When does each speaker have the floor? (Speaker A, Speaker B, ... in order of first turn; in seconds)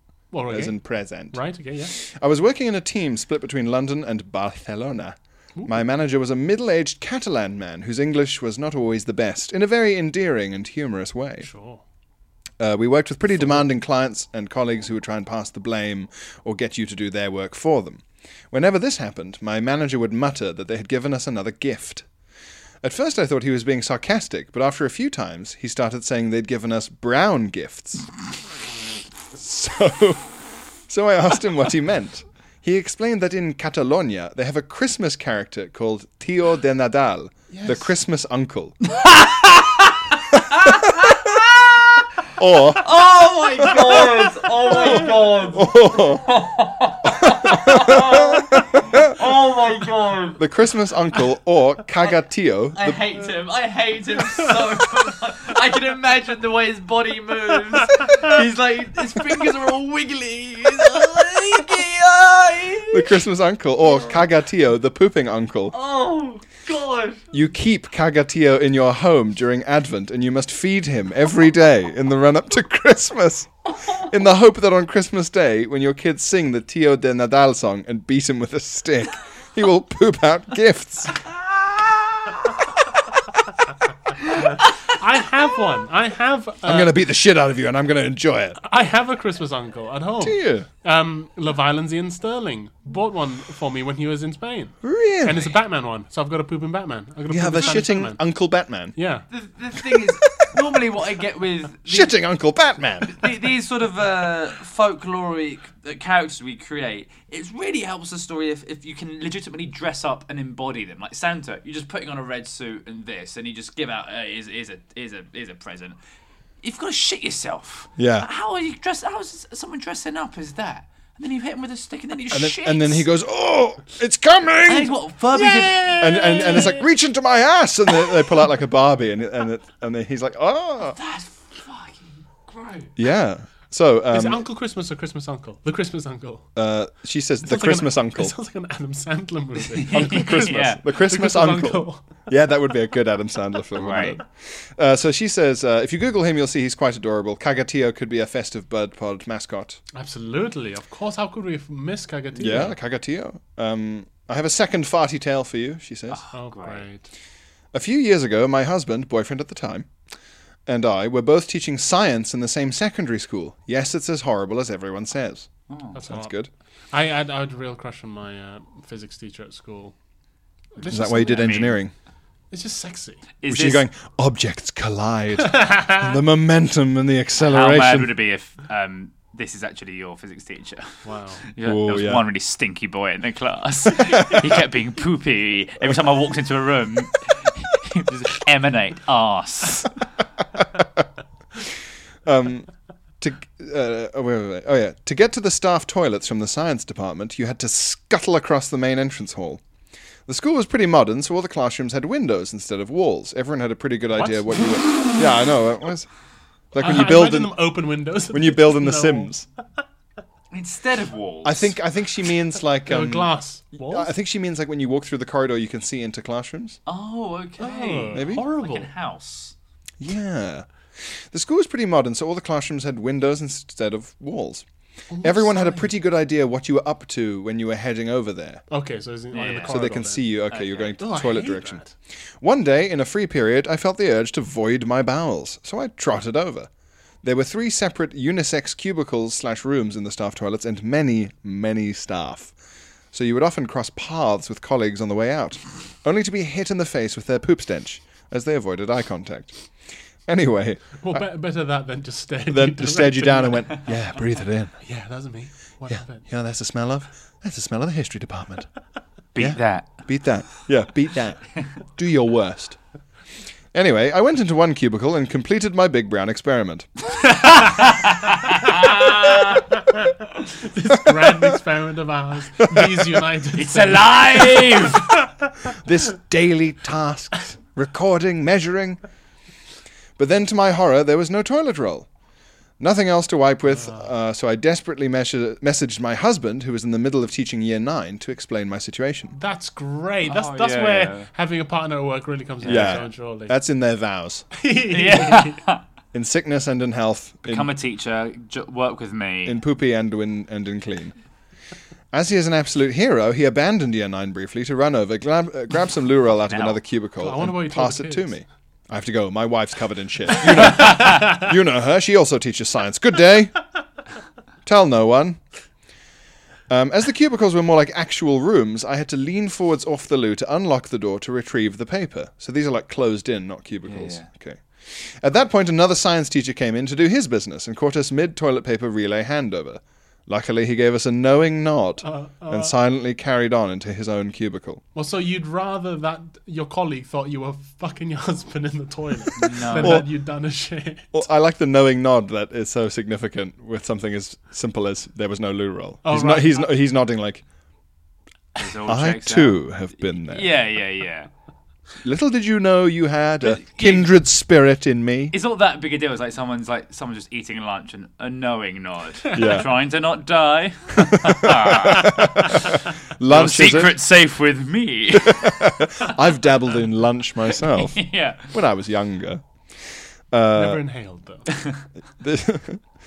Speaker A: 0.3-1.9, 5.6-5.8, 11.4-11.8, 13.3-13.7, 37.5-37.9, 84.9-86.9, 88.6-98.2, 99.0-99.3, 126.3-126.6, 134.1-136.5, 137.4-142.3, 149.9-152.8, 156.3-157.1, 165.9-166.3, 166.9-169.9, 170.8-171.8, 172.5-173.4, 175.5-175.9, 181.0-181.4, 204.2-204.8, 206.8-209.3, 212.8-214.1, 217.6-218.9, 225.1-225.9, 228.7-230.4, 231.0-231.9, 251.0-253.8, 254.8-256.3, 270.6-275.1, 283.7-284.1, 289.3-293.6, 294.5-295.6, 307.2-308.4, 332.0-332.7, 334.9-341.2, 346.0-346.7, 370.5-371.4
Speaker B: 0.5-11.5, 12.6-22.1, 22.8-28.1, 29.3-30.3, 30.9-38.8, 42.3-46.2, 47.1-49.1, 50.4-53.0, 62.9-65.8, 67.3-81.2, 86.7-88.6, 90.2-90.7, 94.8-95.5, 97.3-99.0, 101.9-103.3, 118.0-118.3, 122.3-124.9, 125.9-131.0, 133.0-134.4, 136.6-138.3, 139.9-149.8, 152.4-156.2, 157.7-159.9, 160.7-166.5, 170.9-171.9, 173.5-178.1, 181.6-182.2, 184.0-184.5, 192.3-192.7, 193.2-199.6, 200.3-206.1, 206.7-207.6, 208.3-209.5, 211.4-216.8, 218.1-218.4, 220.0-224.7, 225.2-228.6, 229.5-231.9, 232.4-236.7, 237.2-242.6, 243.1-249.6, 250.3-251.3, 252.5-254.8, 255.9-258.7, 259.4-262.8, 263.7-266.9, 272.6-273.3, 275.8-279.0, 280.2-282.1, 282.8-289.4, 292.7-294.5, 296.1-297.7, 299.4-301.1, 302.1-313.6, 314.6-315.4, 316.7-334.8, 339.8-340.1, 341.1-347.4, 348.9-350.5, 352.0-355.4, 359.3-359.7, 361.0-363.9, 365.1-369.4, 370.3-370.8, 372.2-372.8
Speaker C: 39.0-41.9, 42.8-50.4, 52.8-63.2, 63.8-64.2, 65.7-67.3, 99.3-102.2, 103.1-116.0, 116.6-123.1, 124.7-126.8, 130.8-132.9, 139.8-140.8, 143.8-144.2, 156.1-156.8, 165.7-166.0, 171.3-171.8, 173.4-173.9, 177.4-190.0, 210.5-211.8, 216.9-219.6, 229.3-229.8, 230.5-231.0, 259.4-260.1, 267.3-269.7, 273.5-275.1, 290.2-291.3, 292.6-293.0, 294.9-295.8, 297.5-299.6, 306.5-306.8, 310.7-311.2, 323.9-324.3, 339.4-340.0, 348.6-349.6, 350.2-351.3, 353.4-354.1, 355.3-362.6, 363.3-366.1, 367.7-368.5